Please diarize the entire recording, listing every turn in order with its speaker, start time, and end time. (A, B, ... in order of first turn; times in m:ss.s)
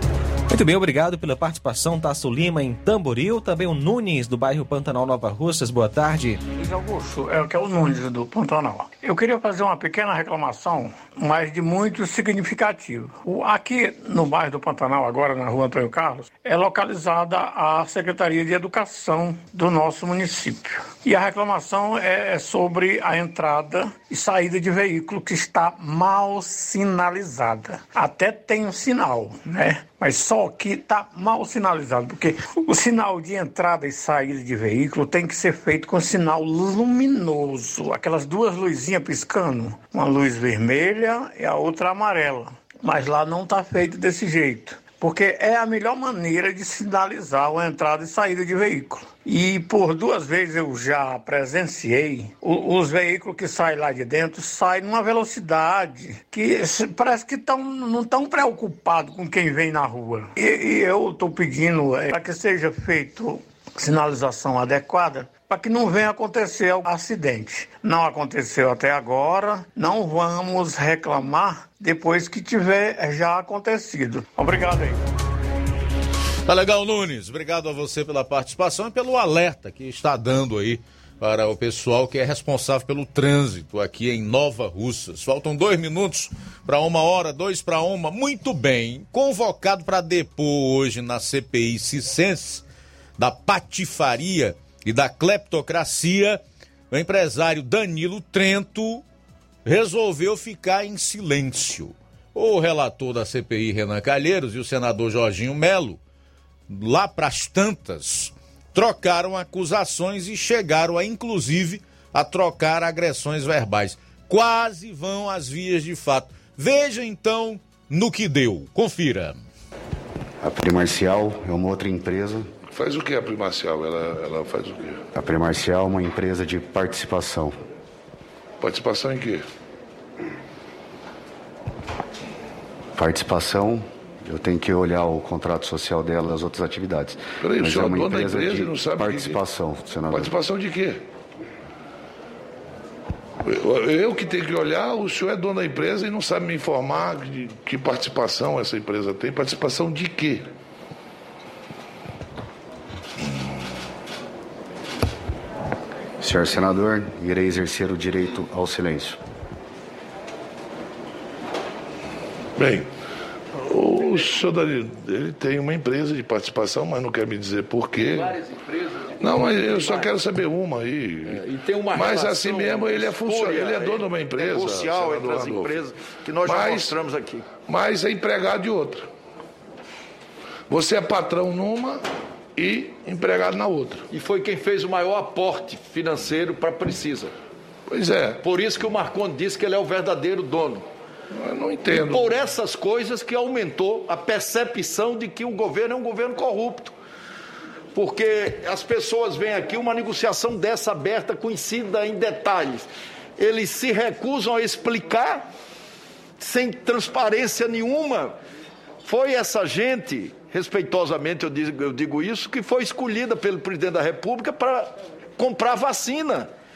0:00.5-0:06.4 A
0:06.7-1:15.0 B
1:16.5-1:32.6 C
1:33.2-1:39.0 C
1:39.6-1:46.0 C
1:46.7-1:59.4 C
2:00.4-2:02.5 D
2:02.7-2:05.1 E
2:05.2-2:07.6 D
2:08.6-2:09.5 E
2:13.0-2:20.3 D
2:17.4-2:19.5 E
2:20.1-2:21.0 E
2:23.4-2:30.5 E
2:36.2-2:39.2 D
2:42.6-2:42.9 E
2:43.6-2:48.4 E
2:49.1-2:55.8 E
2:51.6-2:53.9 F
2:54.7-2:57.3 F
2:56.4-2:57.0 E
2:57.6-2:59.1 E
3:00.7-3:02.0 E
3:02.6-3:04.1 E
3:04.1-3:07.3 F
3:07.9-3:08.4 E
3:08.4-3:10.8 F
3:11.3-3:12.4 E
3:12.0-3:16.9 F
3:17.9-3:22.9 F
3:23.4-3:25.4 F
3:26.4-3:28.4 F
3:29.0-3:36.5 F